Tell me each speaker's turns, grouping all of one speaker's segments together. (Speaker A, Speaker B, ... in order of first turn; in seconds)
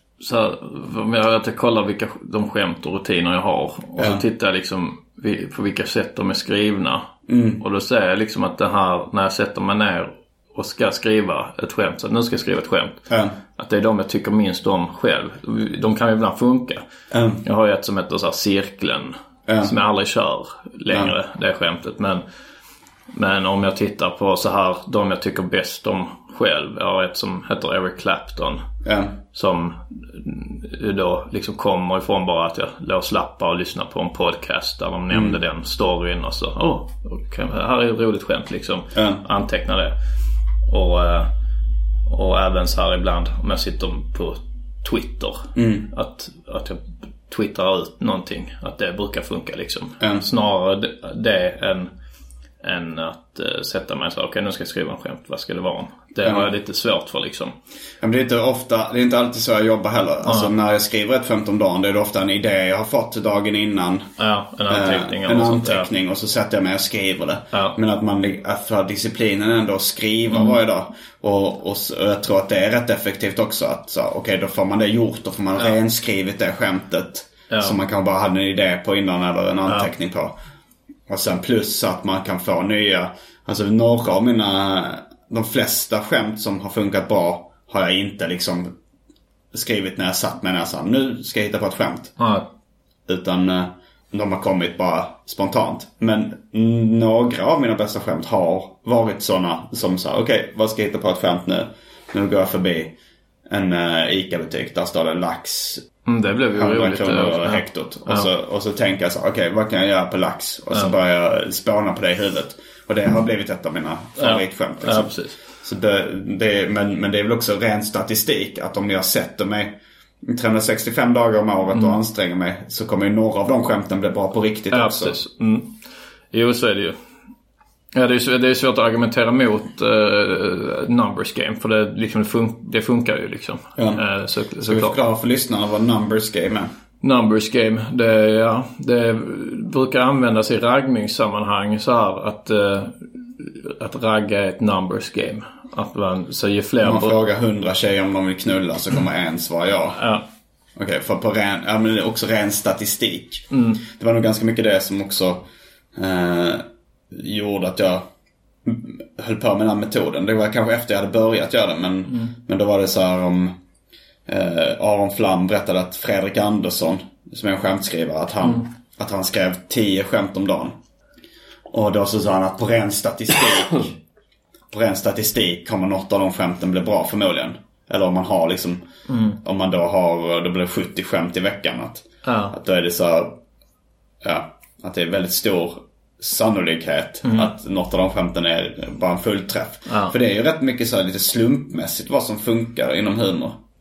Speaker A: 0.2-7.1, 7.6-13.0, 13.6-16.8, 17.4-22.2, 23.1-28.6, 29.3-40.0, 40.7-41.3, 42.1-51.9, 52.6-57.5, 60.2-60.5, 64.2-65.9, 70.3-70.6, 77.5-77.8, 92.2-92.5, 106.1-108.3, 114.2-115.4, 124.7-125.7, 126.3-127.0, 127.9-134.9, 137.0-147.2, 150.0-150.2, 153.5-153.8, 162.1-162.3, 179.1-179.4, 182.2-182.6, 187.2-187.5, 189.9-190.1
Speaker B: 4.0-4.2, 7.3-7.6, 13.1-13.3, 17.1-17.4, 19.5-19.7, 28.8-29.2, 35.1-35.4, 38.9-39.2, 45.5-45.9, 50.0-50.3, 56.2-56.5, 58.0-64.1, 64.7-80.3, 81.1-88.7, 89.5-92.2, 93.1-102.9, 103.5-105.9, 106.5-125.2, 133.8-134.0, 134.6-136.7, 146.8-150.0, 150.8-155.4, 155.9-158.1, 158.6-163.6, 164.3-170.8, 171.7-174.0, 174.7-178.8, 179.4-183.4, 184.2-193.6